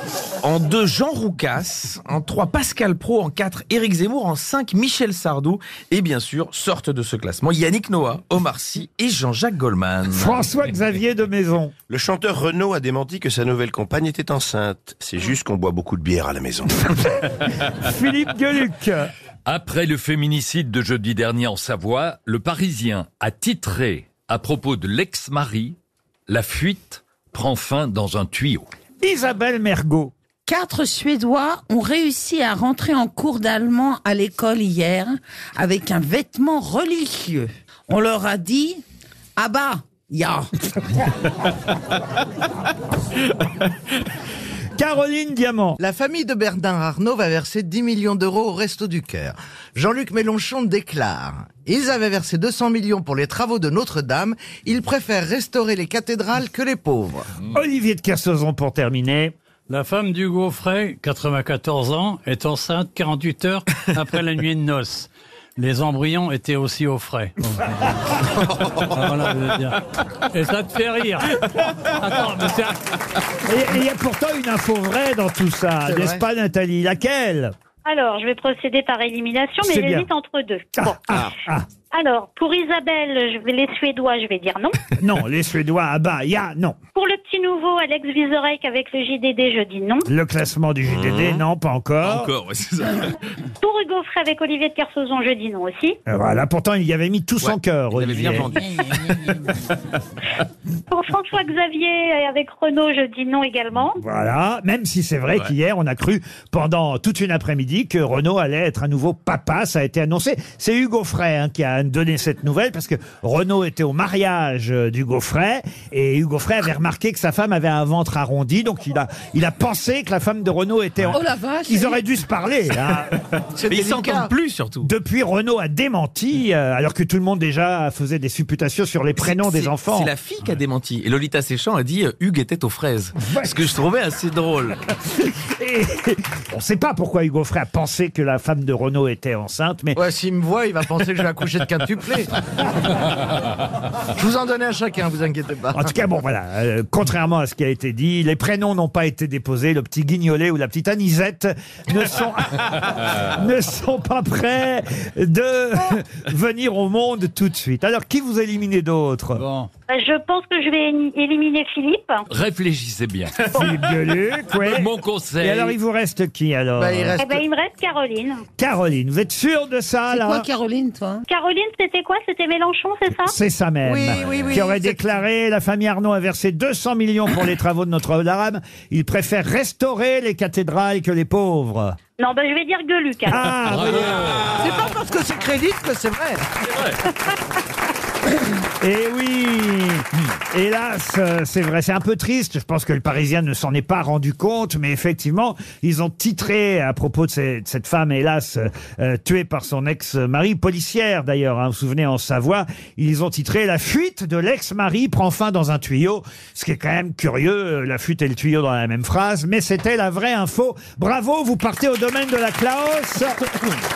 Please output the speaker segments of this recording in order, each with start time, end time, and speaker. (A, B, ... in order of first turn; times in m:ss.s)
0:00.4-0:10.4 A
0:10.1-0:11.7 B
0:11.9-0:17.0 C
0:17.3-0:19.1 B
0:19.4-0:25.8 D
0:26.3-0:28.7 D
0:29.0-0:30.1 B
0:30.4-0:38.8 E
0:39.4-0:40.5 E
0:44.8-0:45.8 B
0:45.8-0:57.3 F
0:57.5-0:59.3 B
0:59.7-1:09.8 G
1:10.3-1:12.8 G
1:13.4-1:17.5 B
1:15.9-1:16.2 F
1:17.8-1:21.0 H
1:19.6-1:20.1 B
1:20.8-1:21.7 B
1:21.9-1:24.8 H
1:25.0-1:26.8 B
1:26.9-1:30.1 H
1:30.1-1:32.3 B
1:30.9-1:31.4 C
1:32.0-1:33.2 A
1:33.6-1:36.0 H
1:36.1-1:38.5 B
1:37.4-1:39.3 A
1:40.9-1:44.0 H
1:44.0-2:03.2 B
2:01.1-2:02.0 E
2:03.6-2:04.3 F
2:03.7-2:04.9 A
2:04.8-2:10.1 B
2:09.2-2:14.8 A
2:13.2-2:13.7 B
2:15.3-2:20.0 B
2:20.0-2:22.3 F
2:24.1-2:25.9 F
2:25.7-2:39.4 B
2:39.3-2:39.7 G
2:39.9-2:42.2 H
2:42.3-2:43.5 D
2:43.5-2:47.2 B
2:44.6-2:45.7 D
2:46.8-2:47.4 F
2:47.2-2:48.4 H
2:48.6-2:50.5 B
2:50.1-2:51.2 E
2:51.3-2:53.4 H
2:53.2-3:02.0 B
2:53.8-2:55.0 F
3:02.2-3:03.4 H
3:03.3-3:04.3 B
3:03.6-3:04.5 D
3:04.5-3:06.4 F
3:06.7-3:07.0 D
3:08.8-3:33.4 B